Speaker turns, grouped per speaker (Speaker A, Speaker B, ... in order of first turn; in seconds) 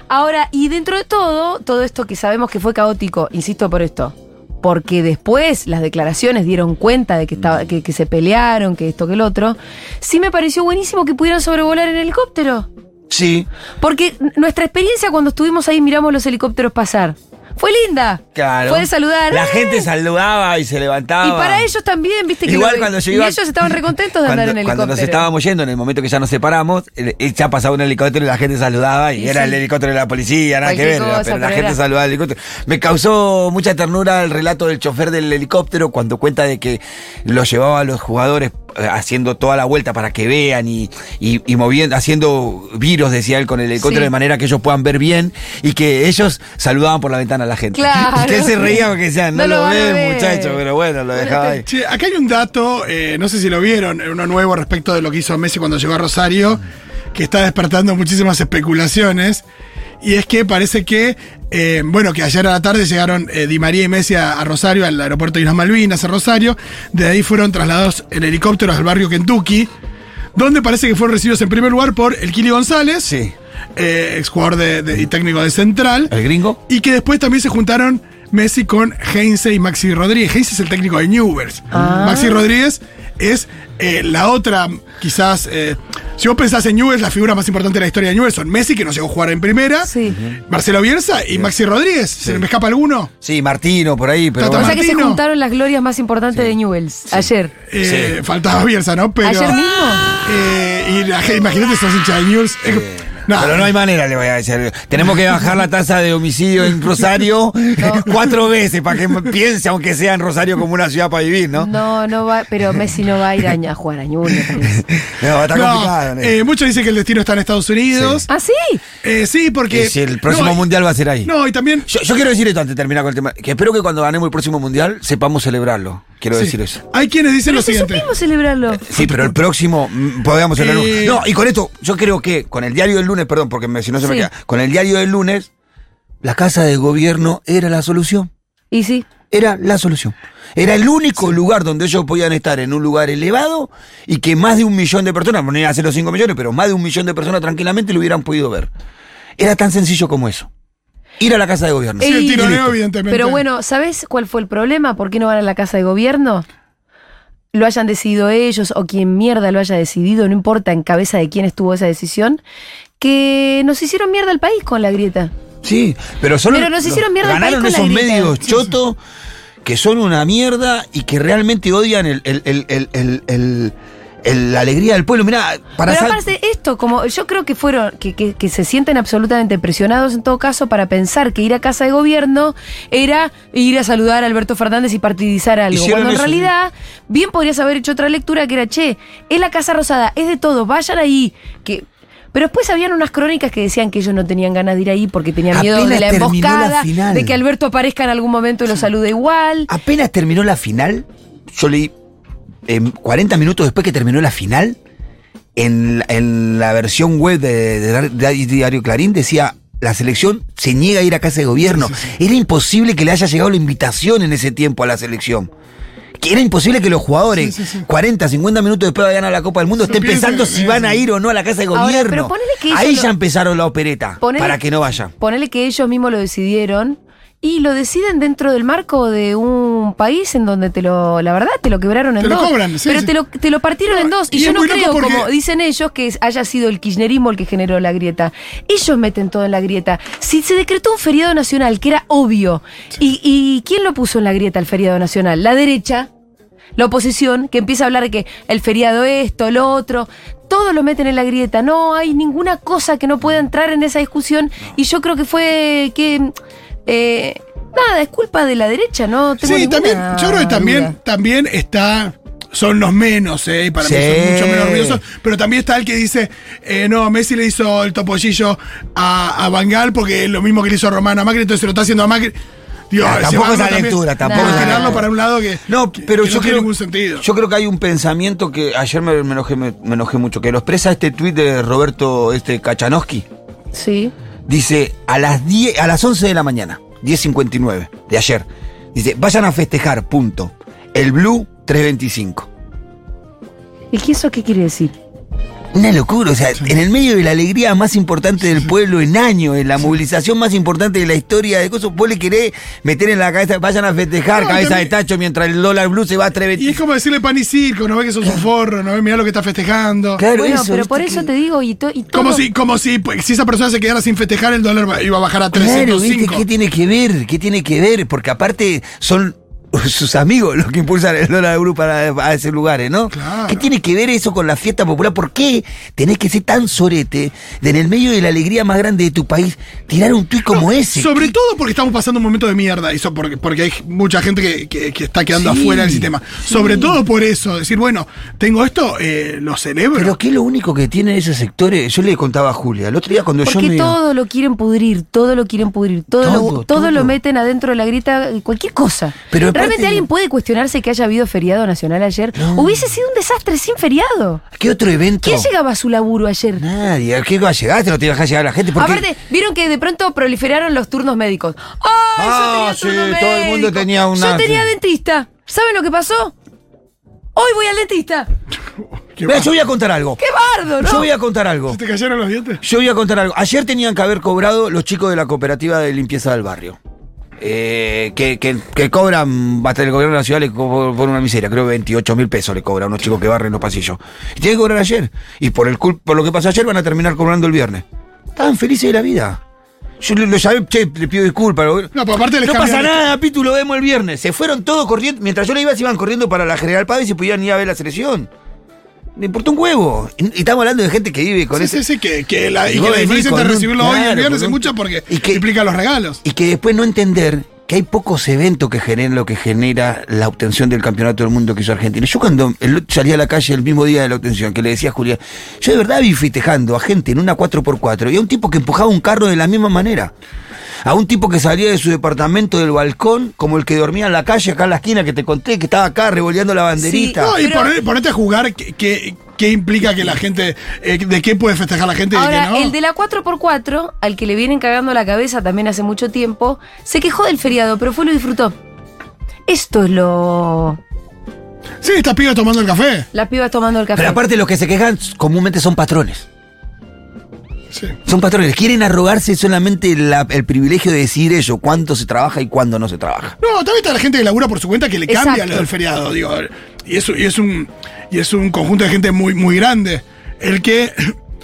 Speaker A: 0.1-12.7, 13.8-19.9, 21.2-25.2, 29.2-29.6, 30.6-31.8, 43.8-44.1, 47.7-50.6, 51.1-51.6, 81.7-82.4, 89.8-90.2, 94.5-97.5, 99.2-100.1, 107.8-108.1, 111.6-114.8, 118.3-118.8, 127.5-128.9, 134.0-134.3, 138.7-139.1, 152.0-156.4, 157.5-162.4, 163.0-165.3, 166.5-168.4, 175.8-199.7, 221.7-223.1, 224.2-224.6, 225.2-246.1, 246.8-256.3, 256.9-260.9, 274.2-275.0, 283.7-284.1, 293.9-294.9, 310.3-312.4, 343.4-354.4, 355.2-356.6, 358.7-366.3, 367.4-368.3, 370.2-371.1, 426.8-427.7, 432.1-438.5, 439.5-440.8, 443.1-444.2, 455.1-455.6
Speaker B: 13.1-13.5, 18.3-21.7, 22.4-51.6, 73.0-73.3, 76.1-76.6, 81.8-82.0, 90.1-90.4, 92.2-92.5, 93.2-94.8, 97.8-98.2, 102.7-111.7, 114.5-116.3, 117.9-118.3, 119.7-121.3, 121.9-126.8, 128.8-135.5, 136.2-138.3, 139.3-148.7, 149.4-150.5, 151.2-152.7, 165.6-169.0, 169.6-176.2, 185.7-186.5, 195.5-197.4, 199.7-201.9, 202.7-204.8, 205.6-215.5, 216.2-225.1, 263.8-265.0, 273.0-275.1, 275.7-283.2, 284.5-292.5, 295.7-306.8, 310.2-311.3, 315.5-331.3, 335.3-336.1, 339.9-344.0, 346.2-347.1, 349.3-350.1, 352.3-352.8, 354.5-355.5, 356.6-359.0, 362.2-364.7, 369.2-370.2, 370.8-371.8, 372.6-376.8, 377.4-389.4, 390.0-391.9, 392.4-398.3, 399.1-401.8, 402.7-405.4, 406.2-420.1, 420.8-427.4, 443.9-446.3, 448.1-453.4
Speaker C: 51.6-59.4, 60.0-69.7, 70.3-73.1, 73.8-76.1, 76.7-89.9, 90.5-93.1, 94.4-95.2, 97.7-99.6, 100.1-103.7, 115.5-118.3, 119.0-120.6, 121.2-121.9, 126.3-128.1, 128.9-129.3, 130.6-131.2, 152.0-153.4, 211.7-212.1, 217.4-217.8, 219.9-221.0, 232.2-233.1, 233.9-235.3, 259.4-272.4, 272.9-277.2, 304.3-304.9, 306.6-310.2, 312.1-316.4, 323.1-323.6, 330.5-340.1, 369.1-369.5, 371.7-372.6, 391.9-393.0, 401.5-406.2, 427.2-432.7, 441.8-443.1, 453.4-461.1